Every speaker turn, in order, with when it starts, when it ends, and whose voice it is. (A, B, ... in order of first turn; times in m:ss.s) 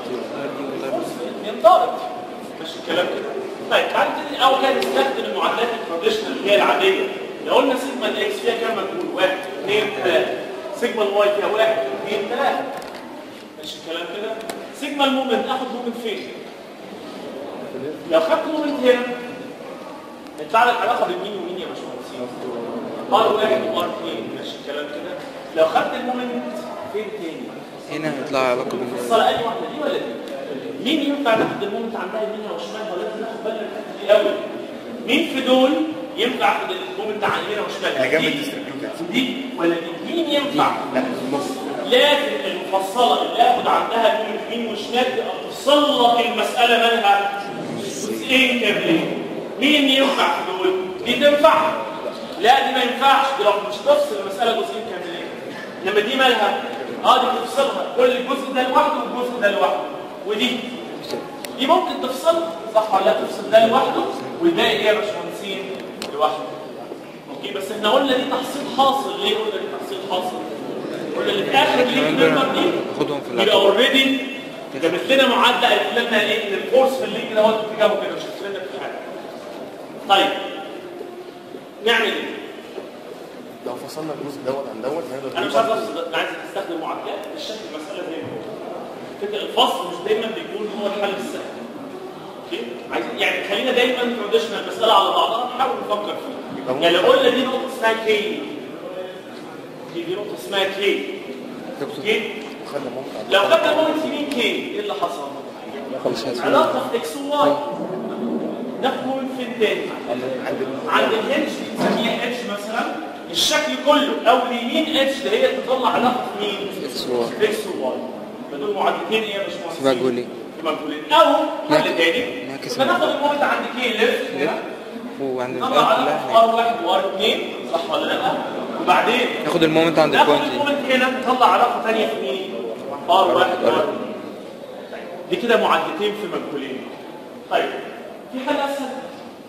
0:00.2-0:01.1 A
0:00.8-0:12.7 B
0:13.6-0:16.4 B
0:18.1-0:19.1 B
0:20.4-0:22.3 B
0:23.1-0:27.6 B
0:27.9-0:29.2 A
0:28.7-0:34.4 B
0:35.0-0:38.4 B
0:38.0-0:39.2 C
0:39.0-0:40.9 B
0:40.5-0:41.0 A
0:40.9-0:41.8 C
0:41.8-0:51.8 B
0:47.7-0:48.2 A
0:52.4-1:00.6 B
1:01.6-1:06.6 B
1:04.0-1:04.3 A
1:07.3-1:10.6 B
1:11.1-1:12.8 B
1:11.5-1:13.8 A
1:13.3-1:19.0 B
1:14.7-1:15.1 A
1:20.1-1:20.4 B
1:21.8-1:22.4 B
1:23.6-1:25.9 C
1:25.3-1:28.5 B
1:29.2-1:31.6 B
1:32.5-1:38.6 B
1:36.6-1:37.4 C
1:39.9-1:41.1 B
1:41.8-1:42.1 A
1:42.0-1:42.4 B
1:42.6-1:44.2 C
1:43.3-1:45.7 B
1:45.9-1:46.7 C
1:46.0-1:46.7 A
1:46.4-1:47.6 B
1:48.8-1:50.2 B
1:50.2-1:51.3 C
1:50.9-2:04.6 B
1:56.8-1:57.4 A
1:59.8-2:00.3 A
2:01.7-2:03.1 A
2:04.3-2:04.6 A
2:05.2-2:06.5 A
2:05.5-2:09.4 B
2:09.4-2:10.7 A
2:10.1-2:12.5 B
2:13.1-2:14.1 B
2:13.2-2:13.9 A
2:14.9-2:16.9 B
2:17.5-2:17.8 B
2:18.3-2:19.1 B